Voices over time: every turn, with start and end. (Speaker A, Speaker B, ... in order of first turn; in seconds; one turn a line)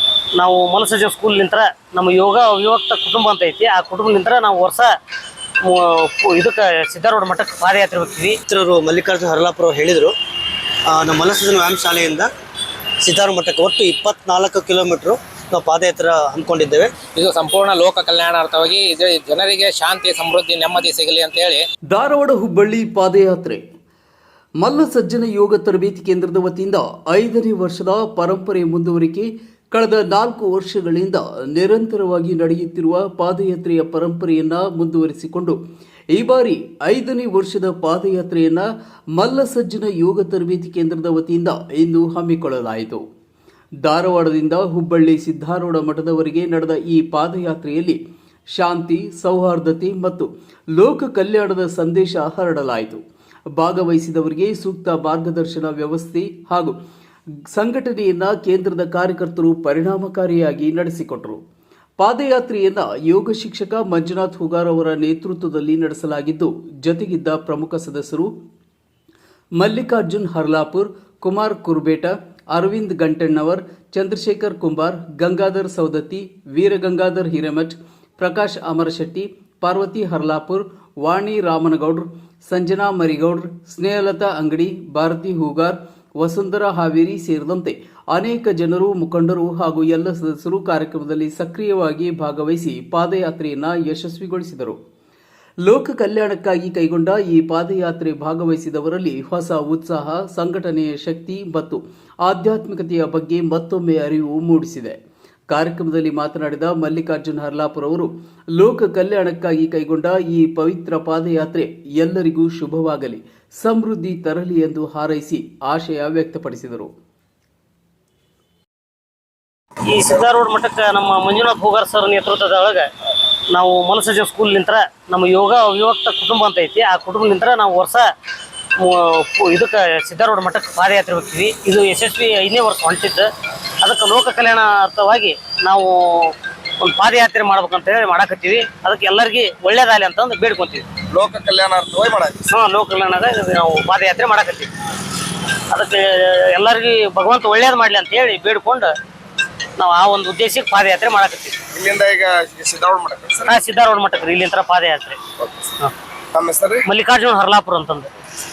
Speaker A: 0.3-4.9
Speaker A: 5.6-8.4
Speaker B: 8.5-10.1
Speaker B: 10.9-12.3
Speaker B: 13.0-16.9
Speaker C: 17.1-21.6
Speaker D: 21.9-23.6
Speaker D: 24.6-35.6
Speaker D: 36.1-43.0
Speaker D: 43.8-48.0
Speaker D: 48.5-53.0
Speaker D: 53.6-56.8
Speaker D: 57.5-61.4
Speaker D: 62.0-68.3
Speaker D: 69.6-94.8
Speaker D: 95.6-105.0
Speaker D: 105.5-116.9
Speaker A: 119.8-122.9
Speaker A: 123.5-128.1
Speaker A: 128.8-133.3
Speaker A: 133.8-140.9
Speaker E: 141.1-142.5
Speaker A: 142.5-144.7
Speaker A: 145.6-148.9
Speaker A: 149.8-151.6
Speaker E: 151.7-153.6
Speaker A: 153.5-155.2
Speaker E: 155.4-155.7
Speaker E: 156.3-156.8
Speaker A: 156.9-158.1